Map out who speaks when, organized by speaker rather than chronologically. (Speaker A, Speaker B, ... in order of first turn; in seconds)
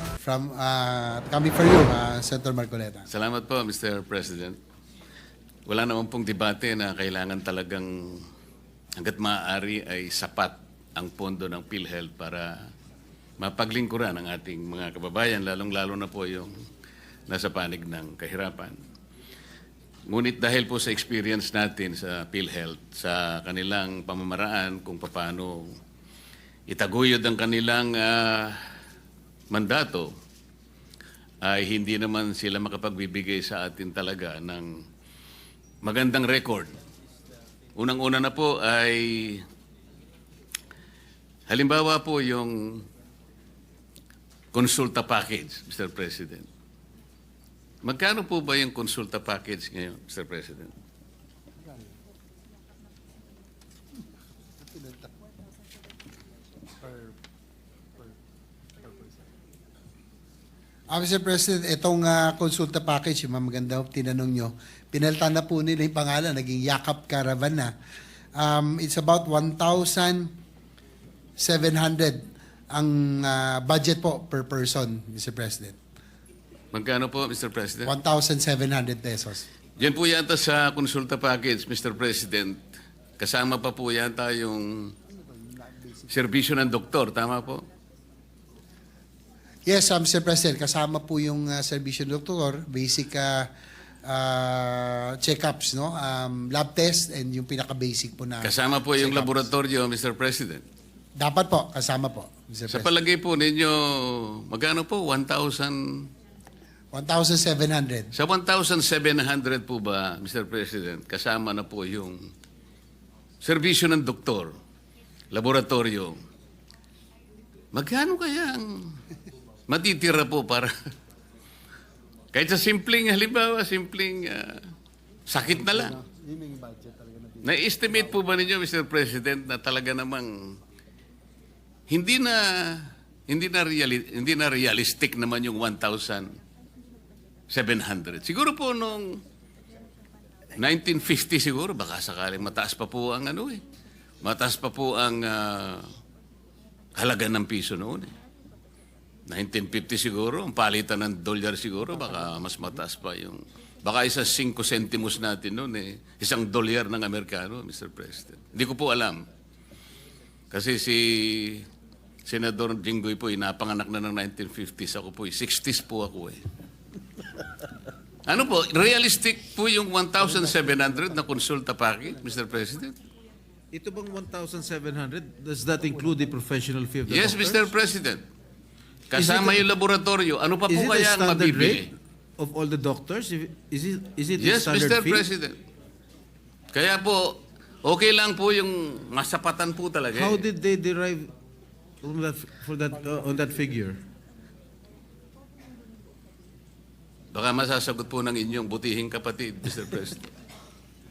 Speaker A: 0.2-3.1, 51.6-51.9, 54.6-55.1, 56.8-57.1, 58.8-59.2, 60.9-67.7, 68.3-70.3, 71.4-75.8, 77.8-79.5, 85.1-86.1, 89.7-93.5, 94.1-99.5, 101.2-102.9, 106.9-108.1, 125.4-128.2
Speaker B: 3.1-4.6, 5.7-8.3, 9.0-12.7, 13.4-16.6, 17.3-18.8, 20.1-25.8, 26.7-28.6, 29.5-30.1, 31.4-34.8, 35.8-36.8, 37.8-39.5, 41.5-42.9, 44.5-46.5, 47.8-50.7, 76.7-77.9, 79.8-84.9, 86.1-87.7, 98.4-100.6, 102.7-106.1, 108.1-112.3, 113.4-114.6, 115.3-116.2, 117.7-119.0, 119.7-120.7, 122.3-124.7, 125.3-126.0, 127.4-130.6, 131.9-136.3, 137.5-139.2, 140.6-143.6, 144.2-145.9, 147.0-148.1, 149.3-159.2, 160.5-161.7, 162.2-166.4, 168.3-173.0, 177.1-178.2, 179.1-181.9, 184.4-185.6, 186.7-190.4, 197.3-200.3
Speaker C: 173.7-177.7, 179.1-179.7, 180.7-185.3, 190.1-191.3, 192.0-194.0